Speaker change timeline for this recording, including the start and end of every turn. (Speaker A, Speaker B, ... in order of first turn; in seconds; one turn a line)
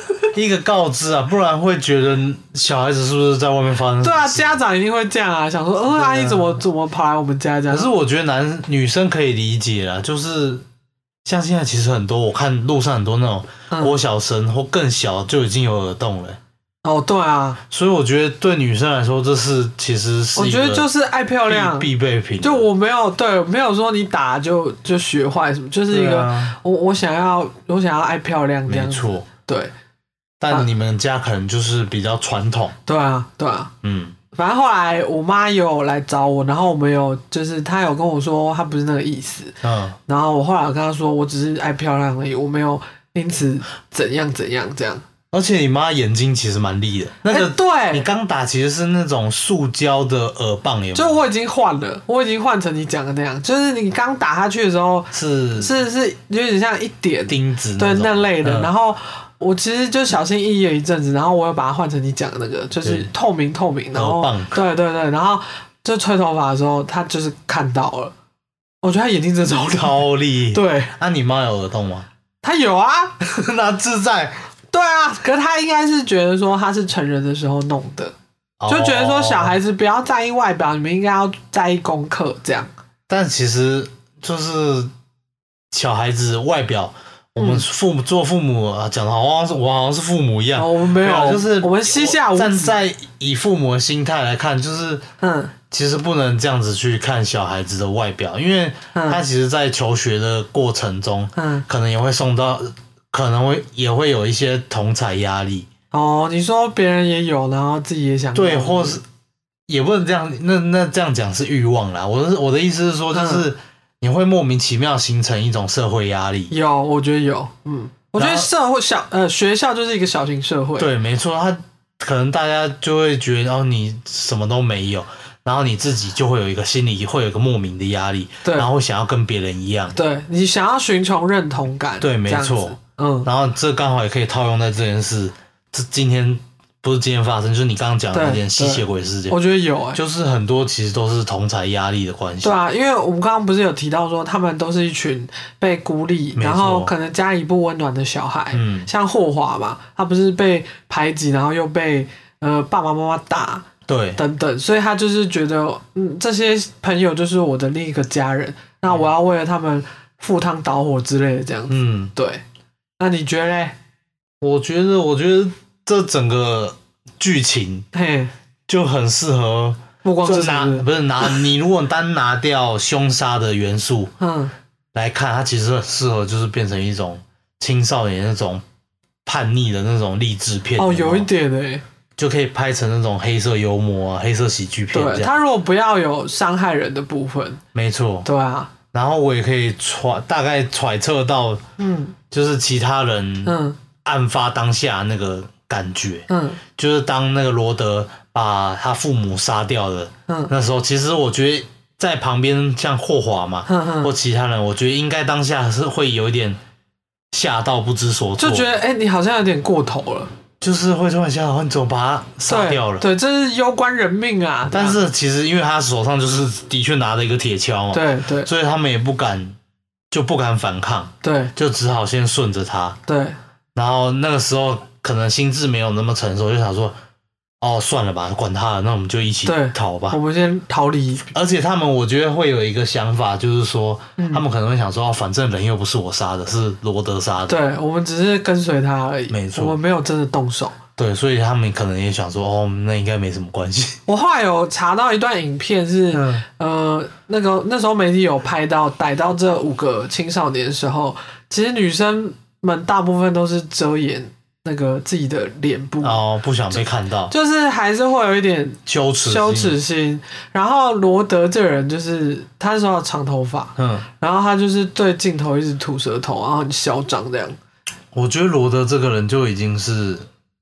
Speaker A: 0.3-4.5
Speaker B: 4.0-7.9
Speaker A: 5.9-6.6
Speaker A: 7.7-10.7
Speaker A: 11.2-16.4
Speaker B: 13.7-14.0
Speaker B: 16.8-17.6
Speaker A: 17.7-20.9
Speaker B: 20.4-21.9
Speaker A: 21.5-22.7
Speaker B: 22.4-29.7
Speaker A: 25.9-26.6
Speaker A: 28.7-29.3
Speaker A: 30.4-32.8
Speaker B: 32.9-33.7
Speaker A: 33.8-34.2
Speaker B: 34.3-45.0
Speaker A: 39.6-40.0
Speaker A: 45.3-51.2
Speaker B: 47.3-48.1
Speaker B: 50.9-68.1
Speaker A: 55.1-55.7
Speaker A: 57.3-58.7
Speaker A: 63.9-64.6
Speaker B: 68.8-70.9
Speaker A: 69.8-72.1
Speaker B: 72.4-73.2
Speaker A: 73.2-74.4
Speaker B: 74.7-78.1
Speaker A: 78.6-79.6
Speaker B: 78.7-82.7
Speaker A: 83.1-84.9
Speaker A: 85.7-95.0
Speaker B: 87.4-87.7
Speaker B: 90.6-92.8
Speaker B: 95.2-95.5
Speaker A: 95.7-105.7
Speaker B: 98.9-99.2
Speaker B: 101.4-101.7
Speaker B: 105.9-109.0
Speaker A: 108.3-109.0
Speaker A: 109.7-116.5
Speaker B: 113.1-113.5
Speaker B: 116.5-120.9
Speaker A: 118.2-118.5
Speaker A: 120.8-130.0
Speaker B: 128.4-128.7
Speaker B: 129.9-133.3
Speaker A: 132.0-139.4
Speaker B: 138.1-140.0
Speaker A: 139.9-142.6
Speaker B: 142.4-162.4
Speaker A: 146.4-146.9
Speaker A: 148.5-148.9
Speaker A: 153.9-154.2
Speaker A: 161.7-162.1
Speaker B: 163.0-163.8
Speaker A: 164.4-167.9
Speaker B: 167.9-168.3
Speaker A: 168.7-174.1
Speaker B: 170.0-170.9
Speaker B: 174.2-174.5
Speaker A: 174.9-178.6
Speaker A: 179.2-181.3
Speaker B: 180.8-181.8
Speaker A: 182.2-185.3
Speaker B: 184.9-187.6
Speaker A: 187.7-188.3
Speaker B: 188.2-188.7
Speaker A: 188.9-191.6
Speaker B: 191.8-192.2
Speaker A: 192.3-206.6
Speaker B: 193.4-193.8
Speaker B: 196.3-196.6
Speaker B: 203.7-204.1
Speaker A: 207.3-208.7
Speaker B: 208.4-210.3
Speaker A: 210.6-213.1
Speaker B: 212.5-215.0
Speaker A: 214.7-219.6
Speaker B: 217.9-218.5
Speaker A: 220.1-223.0
Speaker B: 221.2-221.5
Speaker B: 223.1-223.4
Speaker A: 223.8-226.9
Speaker A: 227.6-230.2
Speaker B: 229.5-231.3
Speaker A: 231.3-237.6
Speaker B: 234.2-234.4
Speaker B: 237.5-240.8
Speaker A: 239.3-239.8
Speaker A: 241.0-244.0
Speaker B: 244.1-256.2
Speaker A: 246.1-246.4
Speaker A: 256.0-257.3
Speaker B: 257.3-267.6
Speaker A: 258.9-259.8
Speaker A: 263.8-264.1
Speaker A: 268.1-270.3